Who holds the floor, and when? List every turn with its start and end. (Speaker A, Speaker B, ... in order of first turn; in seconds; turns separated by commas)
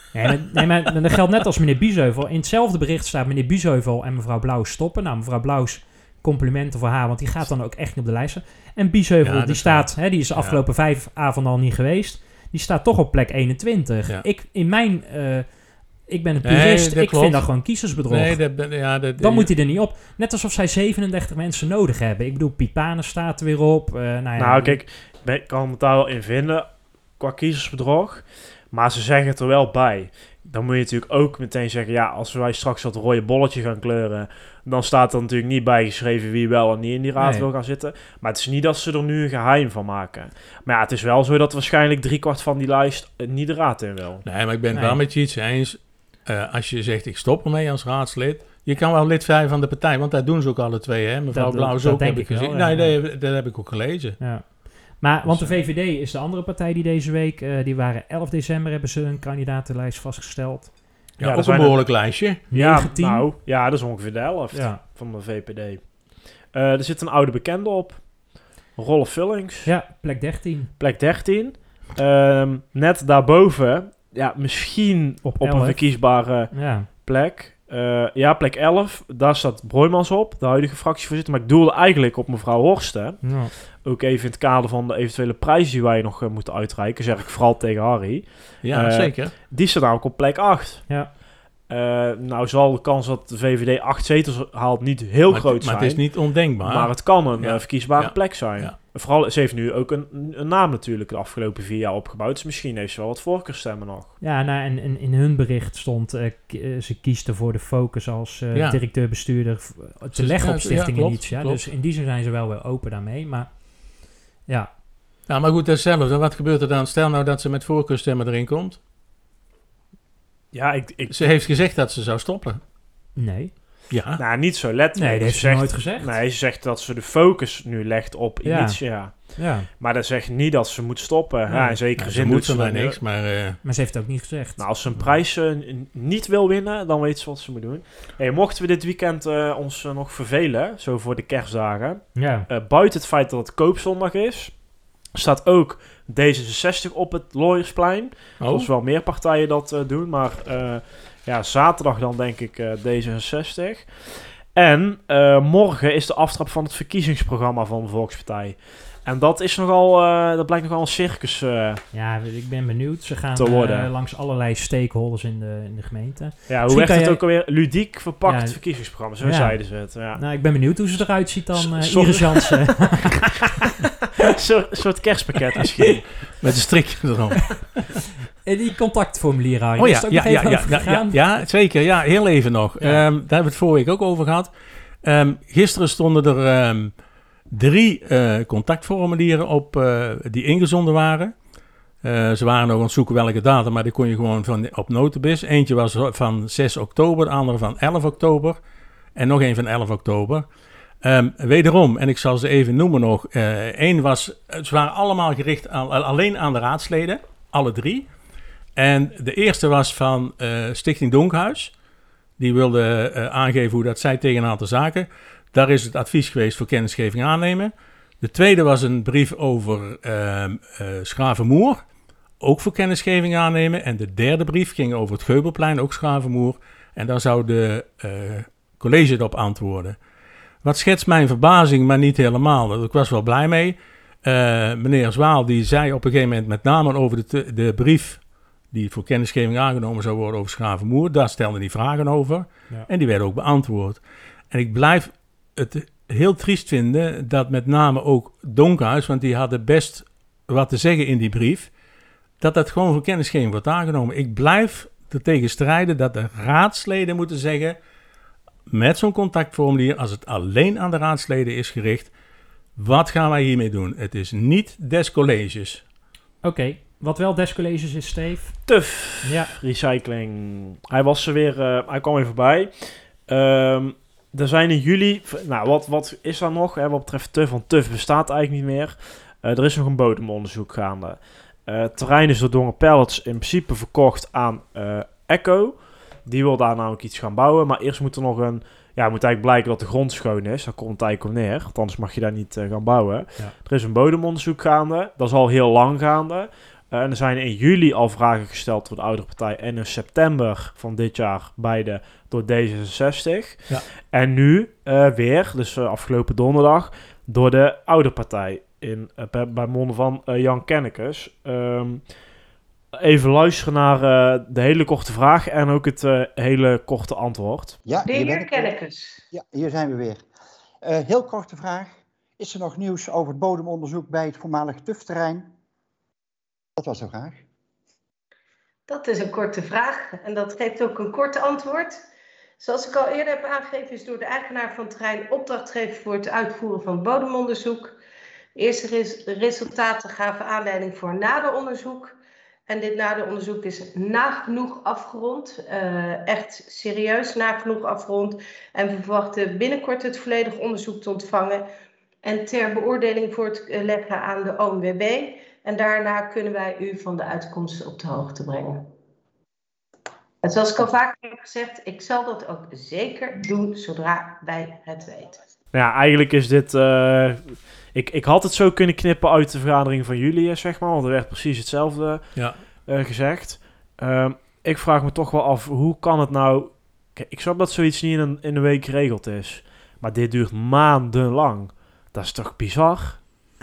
Speaker A: 0.1-24.8, Speaker B: 9.2-10.6, Speaker B: 16.4-19.5, Speaker C: 24.4-44.2, Speaker A: 37.2-37.5, Speaker B: 44.2-54.2, Speaker A: 44.7-45.0, Speaker A: 51.3-53.0, Speaker A: 54.2-60.8, Speaker B: 55.2-55.6, Speaker B: 61.2-62.4, Speaker C: 61.2-69.7, Speaker A: 62.5-63.3, Speaker A: 64.5-64.8, Speaker A: 69.6-70.7, Speaker C: 70.8-91.1, Speaker A: 75.2-76.9, Speaker A: 83.2-83.5, Speaker B: 88.6-89.3, Speaker C: 91.7-104.2, Speaker B: 95.3-98.8, Speaker A: 104.2-114.7, Speaker B: 108.5-108.8, Speaker B: 110.1-111.6, Speaker B: 115.2-118.8, Speaker C: 120.5-121.4, Speaker B: 121.1-122.6, Speaker A: 123.2-123.5, Speaker B: 123.9-124.2, Speaker C: 124.2-133.0, Speaker A: 124.9-126.1, Speaker A: 128.4-129.7, Speaker A: 131.5-131.8, Speaker B: 131.9-133.6, Speaker A: 133.6-135.1, Speaker C: 134.6-161.8, Speaker A: 142.1-142.5, Speaker B: 148.4-148.7, Speaker A: 161.9-167.4, Speaker C: 163.3-163.9, Speaker C: 166.5-170.2, Speaker A: 168.2-173.1, Speaker C: 171.5-173.0, Speaker C: 174.3-176.6, Speaker B: 176.3-177.8, Speaker A: 178.4-181.2, Speaker B: 179.8-184.5, Speaker B: 185.0-191.4, Speaker B: 192.0-198.6, Speaker B: 199.1-200.4, Speaker B: 201.0-208.1, Speaker B: 208.8-211.8, Speaker B: 212.4-221.8, Speaker B: 222.4-230.0, Speaker B: 230.6-251.8, Speaker B: 252.4-257.8, Speaker B: 258.7-262.1, Speaker B: 262.8-265.8, Speaker A: 266.4-268.7, Speaker C: 268.7-312.3, Speaker A: 269.2-269.5, Speaker C: 312.9-317.8, Speaker D: 317.8-318.7, Speaker E: 318.1-319.2, Speaker D: 319.3-320.3, Speaker D: 320.8-325.5, Speaker D: 326.8-327.4, Speaker E: 328.9-332.0, Speaker E: 332.6-338.0, Speaker E: 338.6-342.1, Speaker E: 342.7-351.7, Speaker E: 352.2-358.9, Speaker E: 360.4-365.4, Speaker C: 365.7-383.2